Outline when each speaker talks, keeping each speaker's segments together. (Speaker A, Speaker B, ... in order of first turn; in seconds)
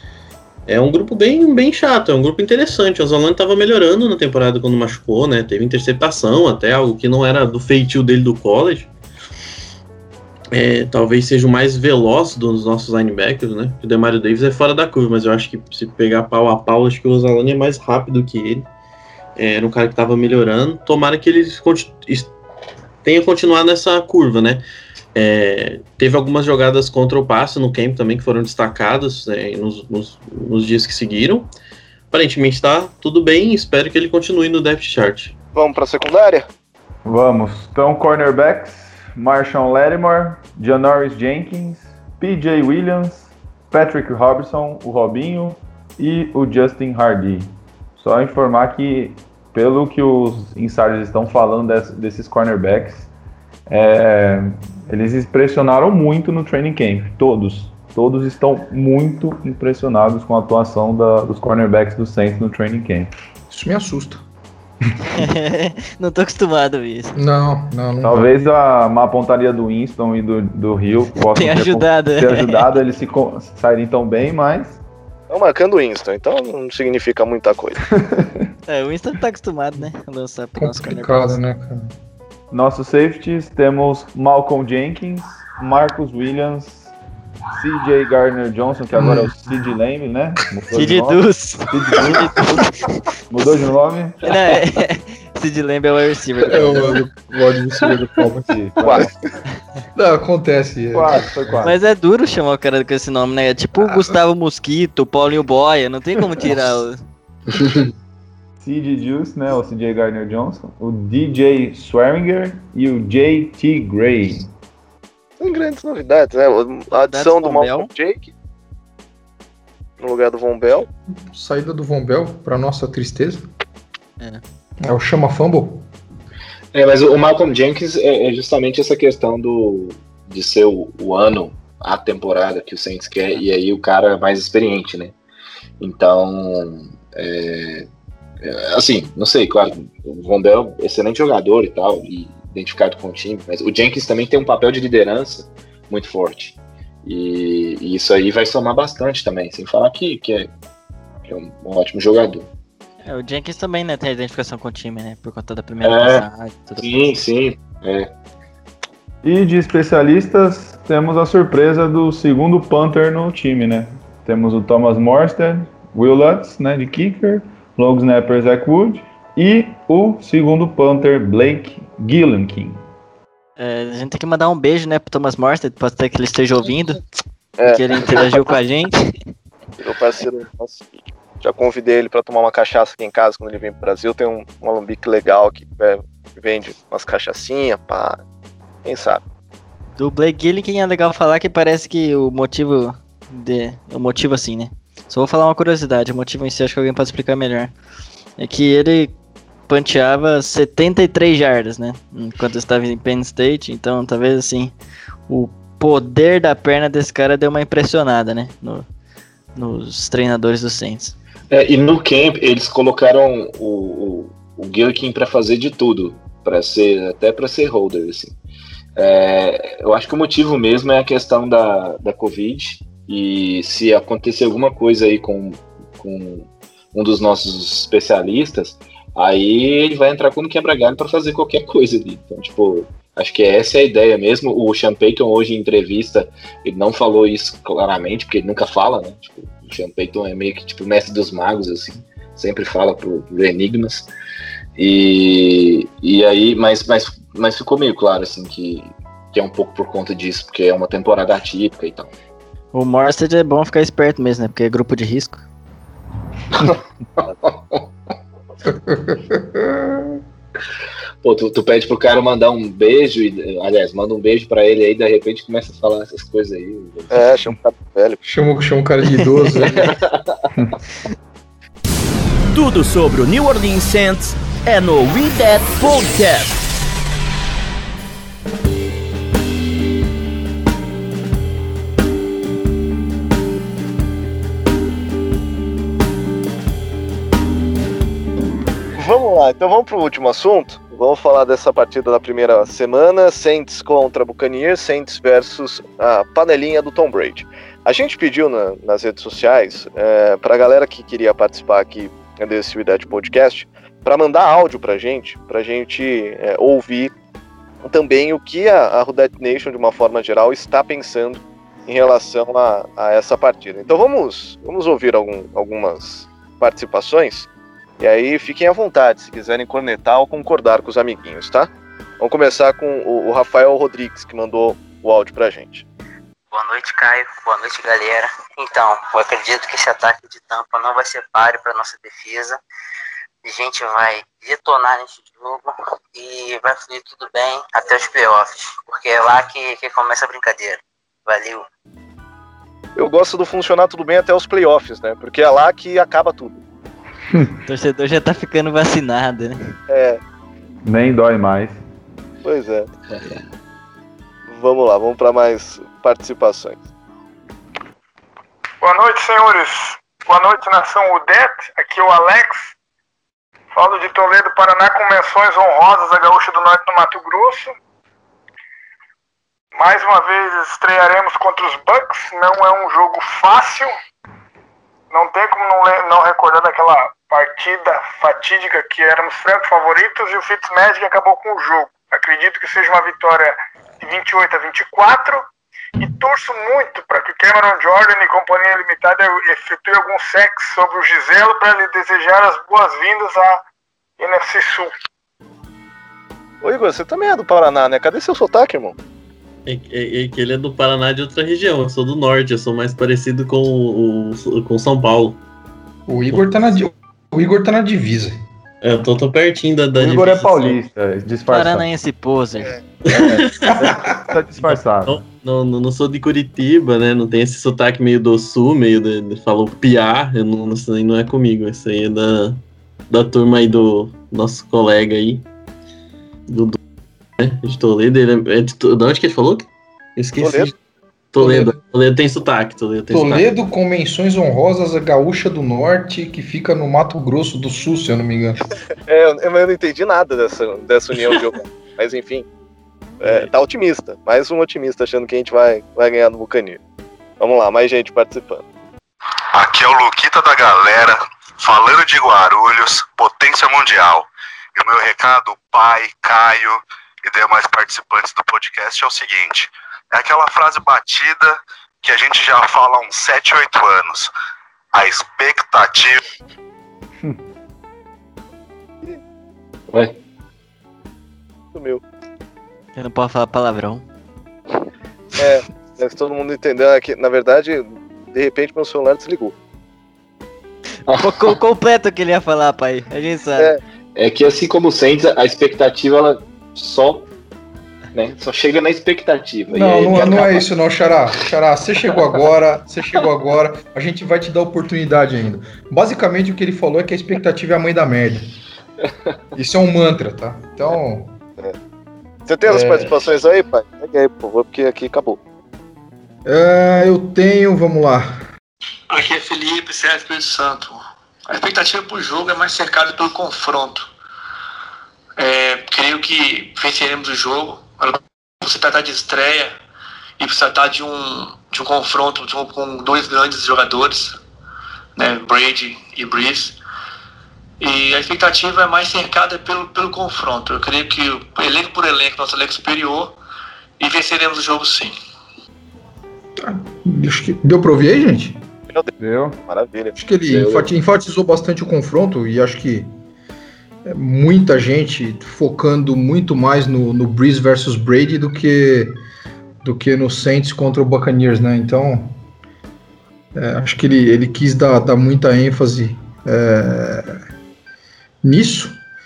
Speaker A: 0.7-8.9, 10.5-18.7, 19.4-22.3, 23.0-24.6, 25.1-31.5, 32.1-35.3, 399.6-405.4, 406.3-406.8, 408.8-410.8, 413.1-414.0, 414.6-425.4, 426.5-426.8, 427.4-430.7, 431.3-433.4, 443.2-443.5
Speaker B: 35.5-36.5, 75.3-77.8, 115.4-118.3, 120.0-120.9, 177.6-178.3, 179.8-180.8, 181.4-188.2, 188.8-189.2, 267.1-268.2, 288.9-307.1, 307.8-317.5, 318.0-321.7, 322.2-325.8, 342.9-346.6, 349.9-350.2, 352.4-352.9, 354.5-356.8, 396.6-398.9, 430.4-430.7, 439.0-442.4, 443.2-446.8, 447.4-448.6, 471.7-472.0, 475.4-479.5, 502.5-505.4, 539.6-540.1
Speaker C: 37.0-53.1, 53.7-63.1, 68.0-74.8, 82.5-86.9, 87.5-92.3, 93.3-94.2, 98.1-99.1, 100.9-101.8, 108.6-114.5, 159.2-172.8, 350.8-351.8, 409.9-411.9, 414.2-415.2, 539.2-539.6
Speaker D: 63.5-64.2, 67.1-68.2, 80.6-81.9, 88.9-89.3, 96.5-99.1, 100.0-101.3, 121.2-123.5, 124.8-125.8, 258.6-260.1, 268.2-269.9, 406.1-408.4, 431.4-431.7, 433.1-438.6, 489.7-498.5, 499.5-501.3, 502.6-503.1, 506.4-508.4, 536.6-538.6, 540.1-543.1, 544.0-549.2, 549.8-552.3, 553.5-557.3, 558.4-559.0
Speaker E: 65.1-67.2, 71.3-72.7, 78.7-81.4, 90.7-93.0, 94.2-97.0, 101.6-107.0, 116.9-117.9, 153.0-157.1, 173.6-177.0, 177.7-178.9, 190.0-197.7, 198.4-199.1, 199.7-204.7, 205.3-208.8, 209.6-211.1, 252.7-255.4, 347.6-349.7, 411.5-412.7, 472.9-474.0, 481.2-483.7
Speaker F: 126.7-135.1, 135.8-137.9, 138.4-150.5, 151.3-152.5, 155.8-156.2, 156.8-158.1, 211.5-218.3, 219.0-244.1, 244.8-252.1, 256.6-257.9, 261.2-267.1, 269.8-270.3, 469.9-470.2, 481.1-481.5, 484.1-487.3, 488.1-490.6, 540.5-540.9
Speaker G: 272.5-276.7
Speaker H: 326.5-332.6, 333.4-341.6
Speaker I: 358.8-362.7, 363.7-367.7, 369.8-373.9, 375.1-385.4, 386.0-393.6, 394.2-394.9
Speaker J: 449.5-464.3, 464.9-466.2
Speaker K: 509.1-514.1, 515.4-519.7, 520.4-524.4, 525.1-526.8, 527.8-533.4, 534.0-535.1